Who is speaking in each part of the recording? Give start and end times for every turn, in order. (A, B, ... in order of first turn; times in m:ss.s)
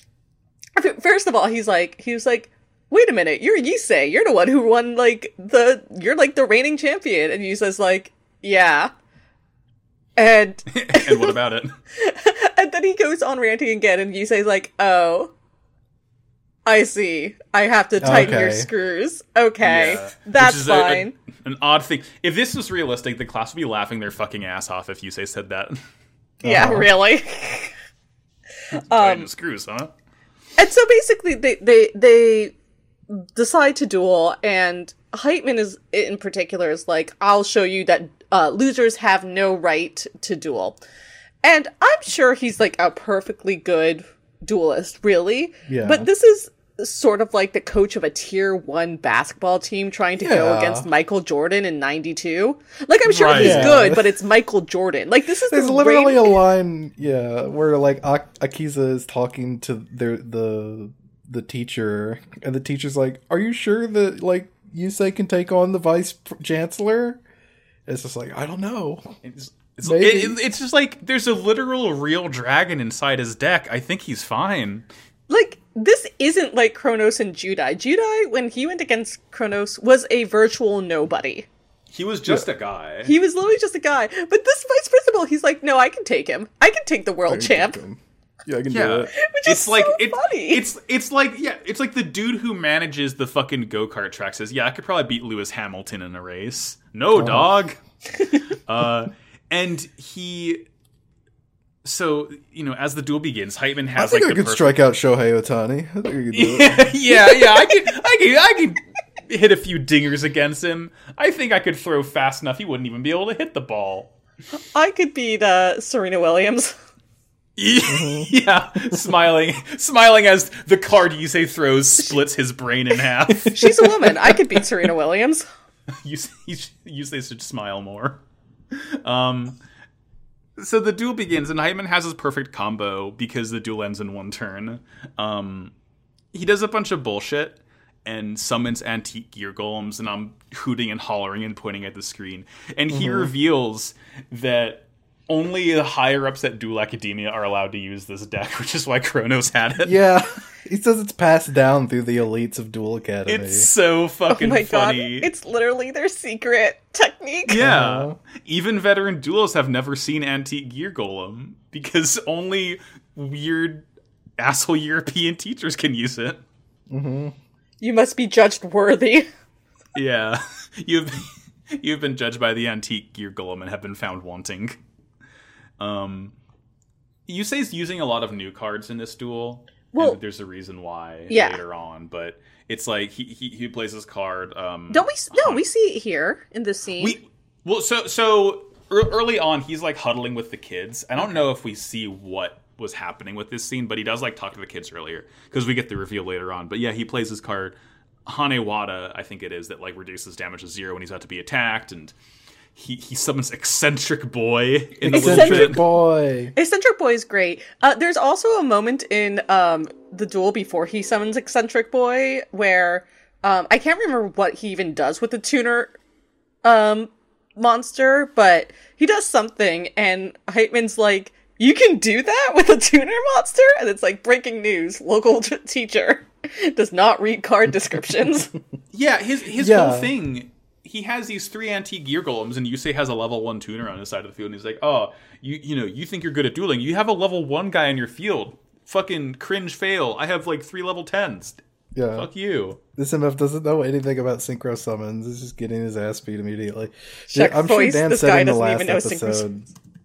0:00.8-0:08.9 A
0:10.2-0:11.3 A
0:10.7-0:11.7 B
0:12.0-0:15.3 A
0:16.7-0:21.2 A
0:18.0-0:18.7 C
0:19.6-0:25.8 B
0:26.4-0:26.9 C
0:26.4-0:27.8 A
0:28.7-0:29.3 A
0:28.9-0:29.9 B
0:30.6-0:32.5 A
0:33.1-0:40.8 A
0:41.4-0:56.4 A
0:45.7-0:46.1 C
0:50.2-0:50.9 C
0:53.1-0:53.8 B
0:53.3-0:54.1 C
0:55.5-1:07.2 C
1:07.9-1:09.1 C
1:09.2-1:14.9 B
1:09.8-1:10.4 C
1:15.3-1:21.5 A
1:21.9-1:23.1 B
1:23.0-1:27.8 A
1:27.3-1:29.1 C
1:28.7-1:37.8 B
1:29.2-1:30.6 A
1:37.2-1:37.5 C
1:38.6-1:40.6 B
1:41.8-1:44.8 B
1:44.0-1:46.9 C
1:46.3-1:54.1 B
1:47.3-1:47.9 A
1:54.6-1:56.8 A
1:57.6-2:03.8 B
1:57.9-1:58.3 C
2:03.5-2:05.5 A
2:06.0-2:09.6 B
2:10.6-2:15.7 B
2:16.3-2:30.1 B
2:22.9-2:23.3 C
2:29.8-2:33.7 C
2:33.3-2:35.3 B
2:34.3-2:37.6 A
2:37.5-2:43.9 B
2:37.6-2:38.2 C
2:44.4-2:46.4 B
2:46.9-2:47.4 C
2:47.8-2:49.3 A
2:50.0-2:54.8 B
2:55.8-2:56.4 B
2:57.3-3:05.6 B
2:59.9-3:00.2 A
3:01.3-3:01.6 A
3:04.9-3:07.2 A
3:07.0-3:17.8 B
3:18.3-3:22.1 B
3:22.8-3:25.8 B
3:25.0-3:26.5 C
3:25.1-3:25.9 A
3:26.6-3:36.0 A
3:36.6-3:48.5 A
3:48.9-4:01.6 B
3:49.6-3:50.1 C
4:02.0-4:02.3 C
4:02.1-4:02.8 B
4:03.0-4:09.7 C
4:07.3-4:09.5 A